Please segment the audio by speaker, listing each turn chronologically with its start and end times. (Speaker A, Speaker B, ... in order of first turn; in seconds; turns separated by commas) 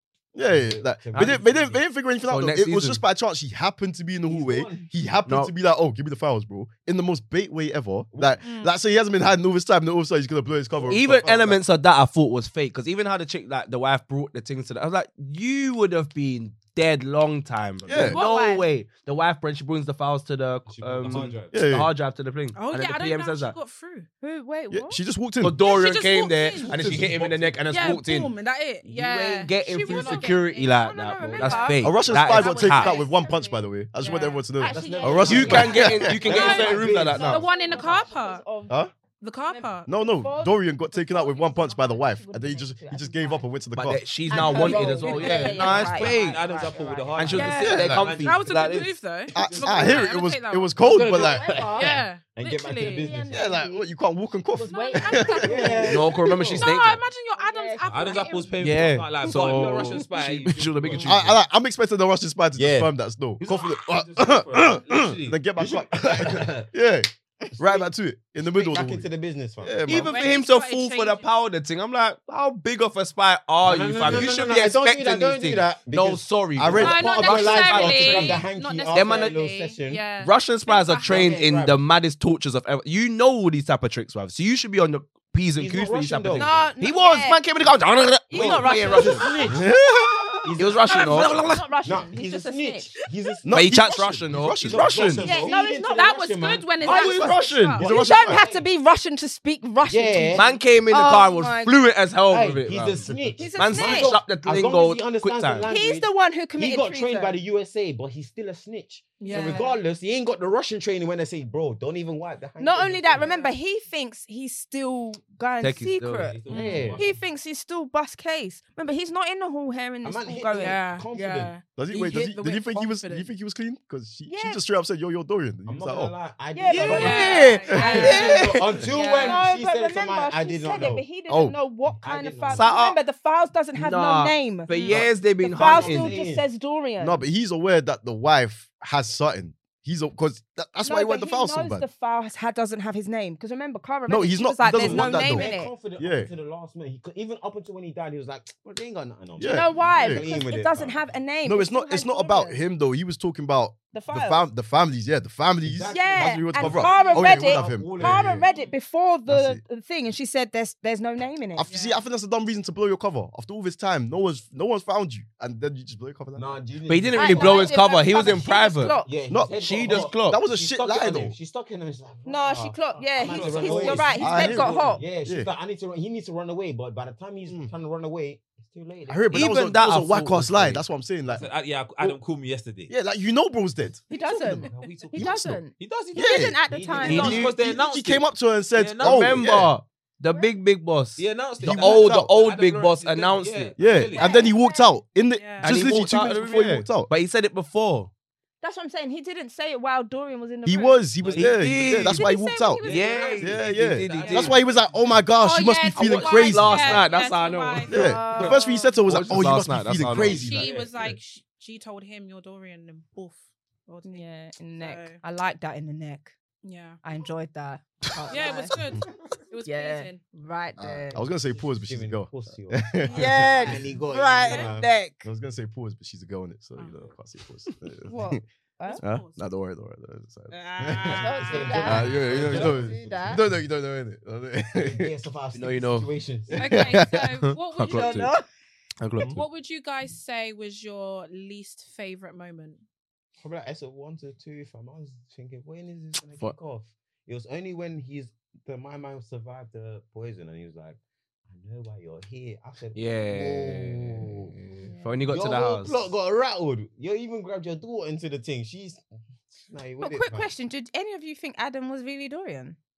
Speaker A: 0.3-11.6, Speaker B: 0.4-1.8, Speaker C: 2.2-3.0, Speaker B: 4.3-4.9, Speaker B: 8.1-8.4, Speaker D: 8.4-8.7, Speaker B: 10.7-11.3, Speaker C: 10.9-23.5, Speaker A: 17.9-18.2, Speaker D: 18.1-18.6, Speaker E: 18.1-18.6, Speaker F: 20.7-21.5, Speaker A: 21.1-21.9, Speaker D: 22.5-24.1, Speaker E: 24.2-25.0, Speaker A: 24.7-25.6, Speaker C: 25.4-33.0, Speaker D: 25.6-26.7, Speaker F: 26.7-27.6, Speaker D: 27.7-31.9, Speaker E: 29.8-33.7, Speaker A: 31.8-36.4, Speaker D: 34.0-34.4, Speaker E: 34.5-38.9, Speaker B: 34.7-37.5, Speaker C: 35.2-37.5, Speaker D: 36.3-38.4, Speaker D: 39.2-39.9, Speaker E: 39.5-43.5, Speaker A: 39.9-44.0, Speaker C: 43.7-46.4, Speaker E: 44.2-47.4, Speaker B: 44.4-45.5, Speaker F: 45.1-48.5, Speaker C: 47.1-49.0, Speaker D: 47.3-53.1, Speaker A: 47.6-48.1, Speaker F: 49.3-50.0, Speaker A: 49.3-51.8, Speaker E: 50.8-52.0, Speaker B: 52.2-53.3, Speaker E: 52.9-53.9, Speaker A: 53.3-56.0, Speaker E: 54.5-56.6, Speaker D: 54.7-58.6, Speaker B: 55.4-56.6, Speaker C: 55.8-57.0, Speaker E: 57.4-58.4, Speaker F: 57.9-61.2, Speaker C: 58.6-61.4, Speaker A: 61.0-69.1, Speaker B: 62.5-62.9, Speaker F: 63.4-65.4, Speaker B: 65.6-66.7, Speaker B: 67.5-67.9, Speaker B: 68.4-70.1, Speaker A: 69.6-70.1, Speaker C: 69.9-79.4, Speaker D: 70.0-71.3, Speaker B: 73.6-80.1, Speaker A: 76.5-77.0, Speaker D: 76.8-81.4, Speaker C: 80.2-89.4, Speaker B: 81.0-81.8, Speaker B: 85.5-86.7, Speaker E: 86.3-87.4, Speaker E: 88.3-89.5, Speaker B: 88.3-89.6, Speaker D: 88.4-89.5, Speaker A: 89.5-90.5, Speaker B: 90.4-93.6, Speaker C: 90.5-91.6, Speaker E: 90.8-93.1, Speaker A: 93.4-95.2, Speaker C: 93.5-95.4, Speaker B: 94.7-98.7, Speaker E: 95.1-96.2, Speaker D: 95.8-97.8, Speaker E: 96.8-101.8, Speaker C: 96.8-97.8, Speaker A: 97.8-98.4, Speaker B: 99.8-100.6, Speaker C: 100.3-105.7, Speaker B: 102.3-113.4, Speaker E: 103.3-104.2, Speaker E: 105.7-107.4, Speaker D: 109.2-109.7, Speaker E: 109.2-109.8, Speaker E: 112.6-120.8, Speaker D: 113.3-113.5, Speaker C: 115.6-116.3, Speaker F: 116.1-117.1, Speaker B: 116.5-117.0, Speaker B: 120.0-121.5, Speaker D: 120.6-123.3, Speaker A: 121.7-126.1, Speaker E: 124.3-124.6, Speaker B: 125.7-131.1, Speaker E: 126.5-137.2, Speaker C: 126.7-128.8, Speaker D: 126.8-128.3, Speaker A: 131.3-131.6, Speaker B: 131.8-132.7, Speaker C: 132.5-133.0, Speaker C: 133.7-136.1, Speaker D: 134.7-135.0, Speaker B: 135.5-136.5, Speaker A: 137.0-141.8, Speaker E: 140.8-145.7, Speaker A: 144.1-146.3, Speaker B: 144.7-151.0, Speaker A: 149.4-150.2, Speaker E: 149.4-152.6, Speaker A: 151.4-158.4, Speaker E: 153.9-154.4, Speaker B: 155.6-158.4, Speaker E: 155.8-161.7, Speaker D: 156.8-157.3, Speaker D: 158.4-158.8, Speaker A: 159.3-159.6, Speaker A: 161.5-166.6, Speaker D: 161.7-162.0, Speaker B: 166.3-167.7, Speaker C: 166.9-169.0, Speaker E: 167.1-169.2, Speaker B: 169.0-179.6, Speaker A: 169.3-171.3, Speaker C: 169.5-170.4, Speaker E: 172.2-175.1, Speaker F: 173.2-175.0, Speaker A: 174.2-175.5, Speaker A: 177.5-177.7, Speaker A: 179.1-182.2, Speaker C: 179.3-180.8, Speaker F: 181.3-182.9, Speaker A: 182.9-184.6, Speaker E: 184.1-187.4, Speaker F: 184.1-189.5, Speaker A: 185.1-185.6, Speaker A: 186.1-186.6, Speaker B: 186.7-187.4, Speaker C: 187.0-187.5, Speaker A: 187.1-189.7, Speaker C: 189.0-193.8, Speaker E: 190.3-190.5, Speaker F: 191.2-194.4, Speaker A: 191.6-192.3, Speaker A: 193.8-197.1, Speaker E: 194.1-194.9, Speaker D: 195.3-195.8, Speaker C: 195.6-198.1, Speaker E: 198.6-201.2, Speaker A: 200.6-202.8, Speaker F: 201.2-202.1, Speaker C: 201.3-202.2, Speaker E: 202.0-203.4, Speaker F: 202.8-205.2, Speaker C: 202.9-204.6, Speaker A: 203.4-207.0, Speaker D: 205.4-208.4, Speaker C: 205.9-210.6, Speaker A: 207.9-211.1, Speaker E: 207.9-209.0, Speaker F: 210.2-211.1, Speaker D: 210.2-215.2, Speaker E: 214.0-216.3, Speaker D: 216.6-217.0, Speaker E: 217.0-219.0, Speaker D: 218.3-220.2, Speaker E: 219.6-221.2, Speaker A: 220.8-223.8, Speaker B: 221.1-224.9, Speaker D: 223.0-223.5, Speaker E: 223.0-225.3, Speaker A: 225.2-228.4, Speaker D: 226.8-227.1, Speaker E: 228.1-229.0, Speaker D: 228.8-229.4, Speaker A: 229.0-231.2, Speaker E: 230.7-233.4, Speaker B: 230.8-233.4, Speaker D: 231.0-232.0, Speaker A: 231.8-235.1, Speaker B: 234.8-236.9, Speaker C: 235.5-236.1, Speaker A: 236.5-237.2, Speaker D: 236.6-238.2, Speaker C: 237.4-238.3, Speaker E: 237.9-238.4, Speaker C: 239.0-239.4, Speaker D: 239.3-242.8, Speaker B: 243.4-254.5, Speaker C: 252.9-256.1, Speaker E: 254.8-255.2, Speaker B: 255.3-259.0, Speaker B: 259.6-260.5, Speaker E: 260.0-262.8